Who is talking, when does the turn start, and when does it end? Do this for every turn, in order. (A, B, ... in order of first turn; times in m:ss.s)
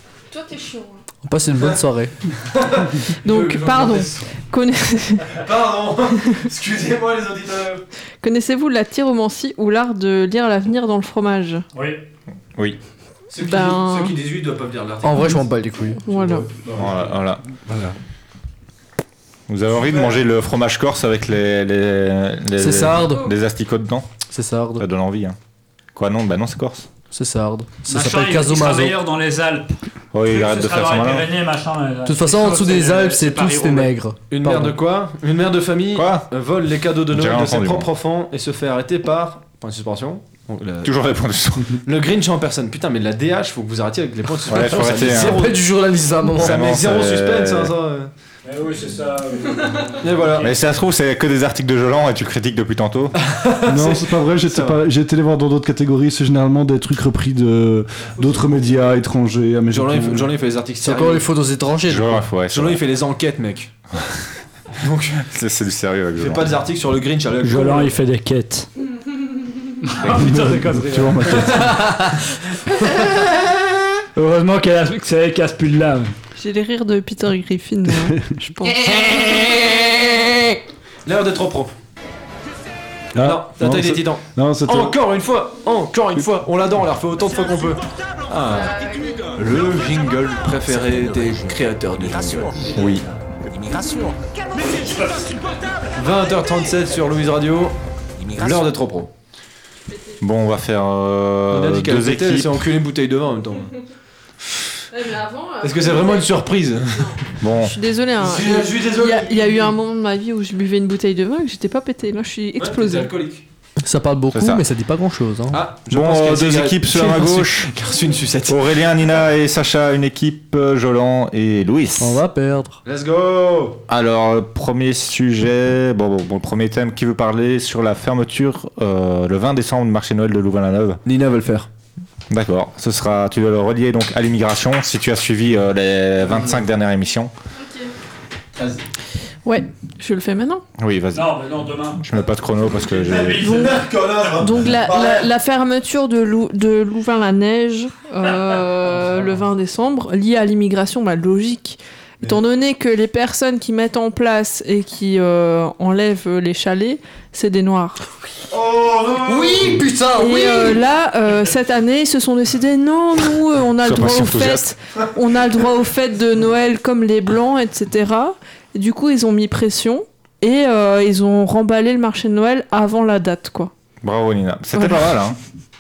0:00.3-0:01.0 A
0:01.2-0:02.1 B
0:02.4-0:04.3 C
0:03.2-0:05.4 A
0:05.3-0:07.8 C
0:08.2-0:11.6 A
0:11.7-0:12.0 D
0:13.3-0:15.4 C
0:13.4-0:14.2 A
0:15.0-0:16.1 B
0:16.0-0:16.5 A
0:16.8-0:17.4 E
0:17.7-0:17.9 C
0:19.5-0:24.1 E
0:19.9-0:20.1 C
0:22.6-0:23.3 B
0:24.3-0:24.8 B
0:24.8-0:25.4 E
0:25.9-0:26.9 E
0:27.1-0:28.9 B
0:27.9-0:29.7 D
0:30.1-0:31.3 E
0:30.3-0:33.9 D
0:32.1-0:34.8 B
0:34.3-0:41.0 C
0:35.9-0:36.3 E
0:37.1-0:37.9 E
0:40.8-0:41.8 E
0:41.8-0:45.6 C
0:44.4-0:45.5 E
0:44.6-0:46.6 B
0:46.4-0:47.7 E
0:46.4-0:48.1 C
0:48.4-0:50.5 D
0:50.0-0:50.5 C
0:50.4-0:53.2 E
0:53.2-0:54.8 C
0:53.7-1:00.3 F
0:59.7-1:01.3 C
1:00.8-1:02.2 B
1:01.9-1:02.8 E
1:02.5-1:03.7 C
1:04.8-1:05.3 C
1:05.2-1:06.6 E
1:06.2-1:08.0 C
1:07.4-1:08.7 D
1:09.9-1:11.7 D
1:10.1-1:12.0 F
1:14.2-1:16.1 D
1:16.4-1:19.5 A
1:18.0-1:18.5 F
1:21.1-1:21.7 C
1:23.2-1:25.0 F
1:23.2-1:28.8 C
1:28.6-1:29.4 A
1:29.3-1:32.7 C
1:32.7-1:33.0 D
1:32.7-1:33.1 E
1:34.8-1:35.3 D
1:36.0-1:37.8 C
1:38.3-1:39.1 C
1:40.2-1:42.7 E
1:41.5-1:43.7 C
1:44.9-1:53.1 A
1:45.6-1:47.1 C
1:47.4-1:47.8 E
1:48.2-1:49.7 C
1:52.6-1:53.4 C
1:53.8-1:55.6 B
1:54.3-1:54.6 E
1:55.5-1:58.7 C
1:55.9-1:57.7 E
1:58.5-2:02.2 E
2:02.0-2:02.8 B
2:02.8-2:03.8 C
2:03.9-2:11.0 E
2:11.0-2:11.7 C
2:12.3-2:17.3 E
2:16.3-2:16.6 C
2:17.6-2:17.9 A
2:18.6-2:18.8 C
2:19.4-2:20.6 A
2:20.8-2:23.5 E
2:21.1-2:22.0 D
2:23.0-2:23.7 D
2:23.0-2:25.3 C
2:23.4-2:38.0 A
2:38.5-2:39.8 C
2:39.2-2:40.8 B
2:40.1-2:53.7 A
2:43.8-2:44.7 E
2:54.0-2:55.4 E